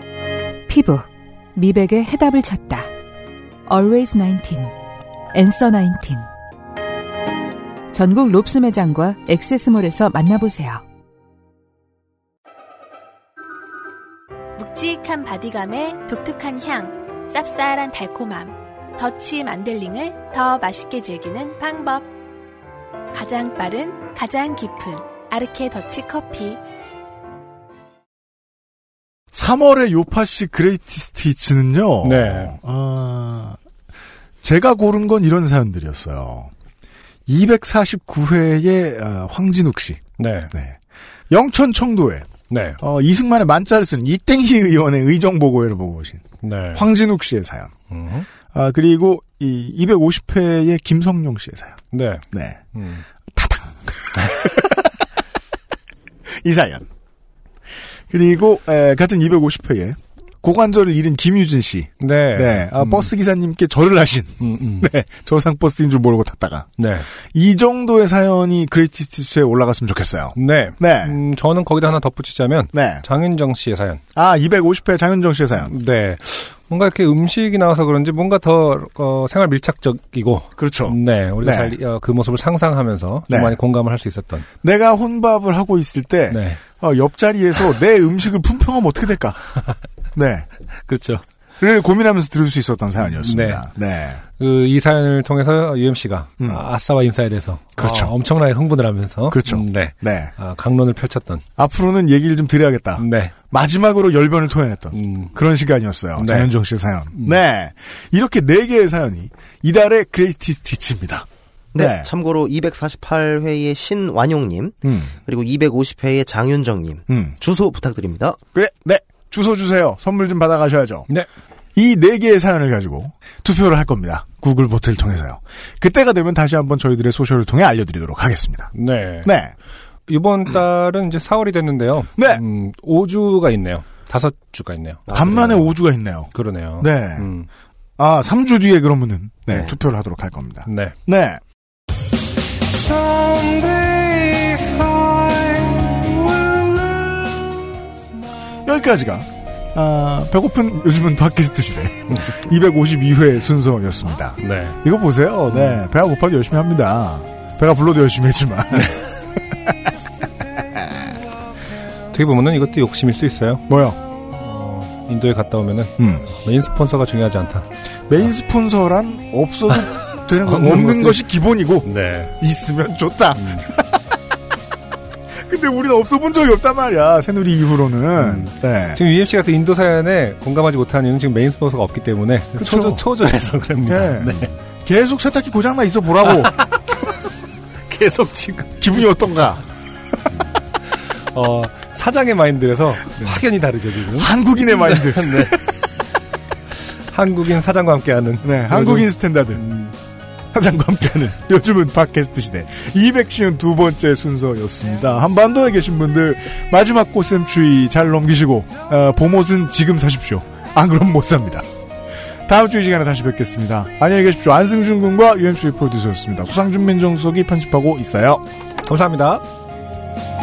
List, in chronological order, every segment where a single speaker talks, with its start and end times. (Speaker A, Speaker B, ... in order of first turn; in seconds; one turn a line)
Speaker A: 0.7-2.9
Speaker A: 3.7-4.7
Speaker A: 5.3-6.3
Speaker A: 7.9-10.8
Speaker B: 14.6-22.1
Speaker B: 23.1-26.6
Speaker C: 29.3-33.6
Speaker D: 32.0-32.5
Speaker C: 34.4-36.5
Speaker C: 37.3-40.8
Speaker D: 40.2-40.5
Speaker C: 41.3-42.3
Speaker D: 42.5-42.8
Speaker C: 42.8-47.7
Speaker D: 46.4-46.9
Speaker D: 47.9-48.3
Speaker C: 48.5-51.8
Speaker D: 51.9-53.0
Speaker C: 52.3-52.6
Speaker C: 53.3-54.9
Speaker C: 56.4-56.9
Speaker C: 58.1-71.2
Speaker D: 62.0-63.1
Speaker D: 64.4-64.9
Speaker D: 66.8-67.1
Speaker D: 70.3-74.0
Speaker C: 72.7-73.0
Speaker C: 74.1-75.7
Speaker D: 75.6-84.5
Speaker C: 80.6-81.7
Speaker C: 83.3-83.6
Speaker C: 84.6-89.4
Speaker D: 86.3-86.6
Speaker C: 90.1-90.5
Speaker D: 90.8-91.2
Speaker C: 91.6-94.2
Speaker D: 93.2-93.6
Speaker D: 94.4-101.4
Speaker C: 97.8-98.1
Speaker C: 99.3-100.3
Speaker C: 101.6-112.1
Speaker D: 103.0-103.3
Speaker D: 104.9-105.3
Speaker D: 106.1-106.5
Speaker D: 107.1-107.4
Speaker E: 111.7-118.4
Speaker C: 114.8-115.1
Speaker C: 117.1-117.3
Speaker C: 118.5-121.1
Speaker C: 121.7-129.5
Speaker D: 128.7-129.3
Speaker D: 130.1-135.7
Speaker C: 132.2-132.4
Speaker C: 135.1-137.3
Speaker D: 136.3-137.5
Speaker C: 138.0-141.4
Speaker D: 140.7-140.9
Speaker D: 142.9-145.2
Speaker C: 148.6-159.0
Speaker D: 154.4-154.8
Speaker D: 155.5-155.8
Speaker D: 162.1-163.7
Speaker C: 163.7-164.0
Speaker D: 164.3-167.7
Speaker C: 166.0-166.2
Speaker C: 168.1-174.0
Speaker D: 170.4-171.3
Speaker D: 171.8-172.3
Speaker D: 173.4-173.7
Speaker C: 175.3-179.0
Speaker D: 178.2-184.5
Speaker C: 182.6-183.0
Speaker C: 183.8-186.5
Speaker D: 186.3-187.1
Speaker D: 187.9-188.8
Speaker C: 188.8-189.6
Speaker D: 190.8-195.6
Speaker C: 194.1-195.7
Speaker D: 197.1-199.9
Speaker C: 198.4-199.6
Speaker C: 200.5-211.7
Speaker C: 212.5-218.4
Speaker D: 218.9-219.4